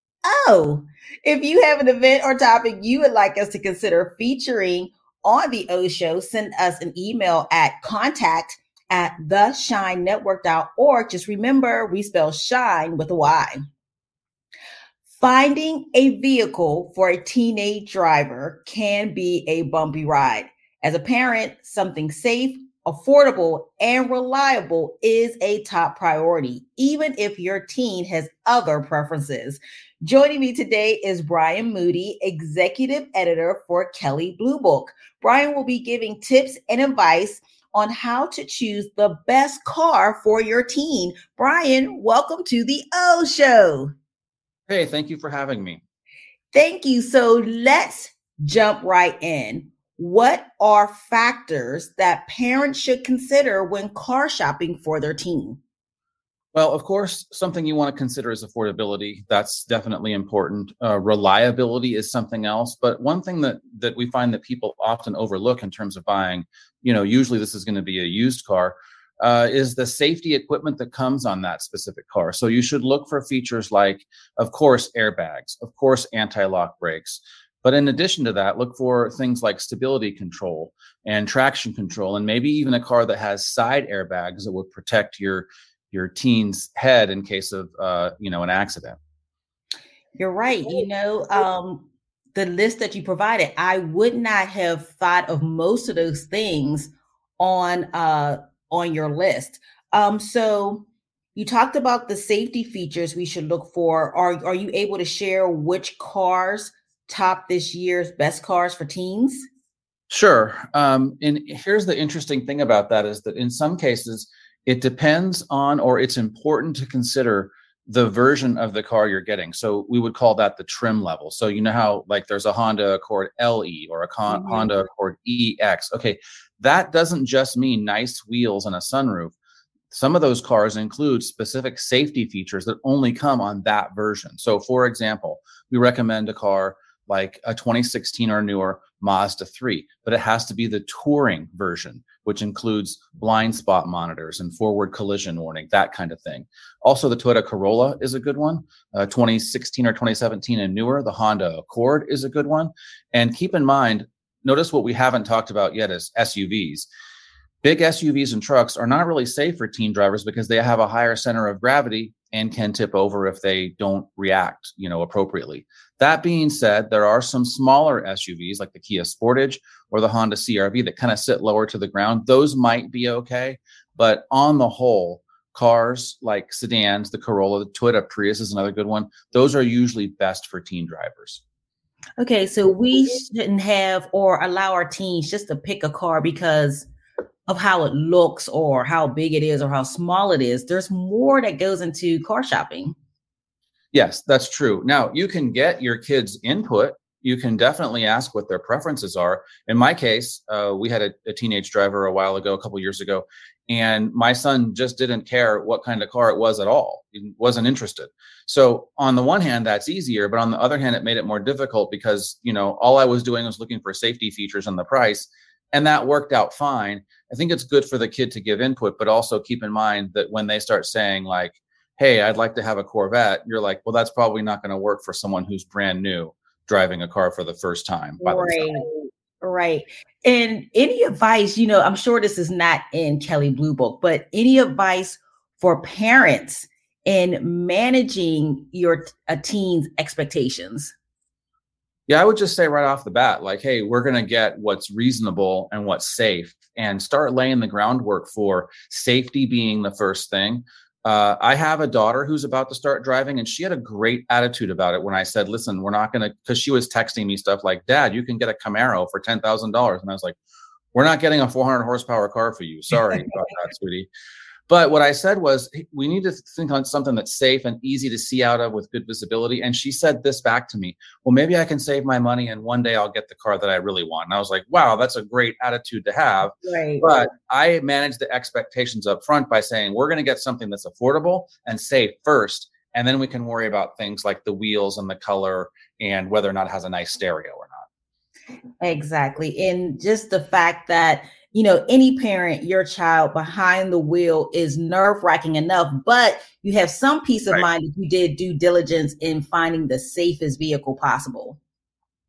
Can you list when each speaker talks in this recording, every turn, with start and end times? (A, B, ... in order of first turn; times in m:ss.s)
0:00.2-0:13.6 A
0:15.2-0:43.9 A
0:44.7-0:45.8 B
0:46.5-0:55.6 A
0:56.6-1:29.0 B
1:30.2-1:49.5 A
1:50.1-2:09.4 B
2:04.3-2:04.7 A
2:09.9-2:36.9 B
2:37.6-3:01.4 B
3:02.2-3:06.9 A
3:07.5-3:13.0 A
3:13.9-3:48.8 B
3:48.2-4:00.9 A
4:02.1-4:20.4 B
4:20.9-4:24.1 B
4:24.7-4:47.8 B
4:36.6-4:37.1 A
4:48.8-5:01.6 A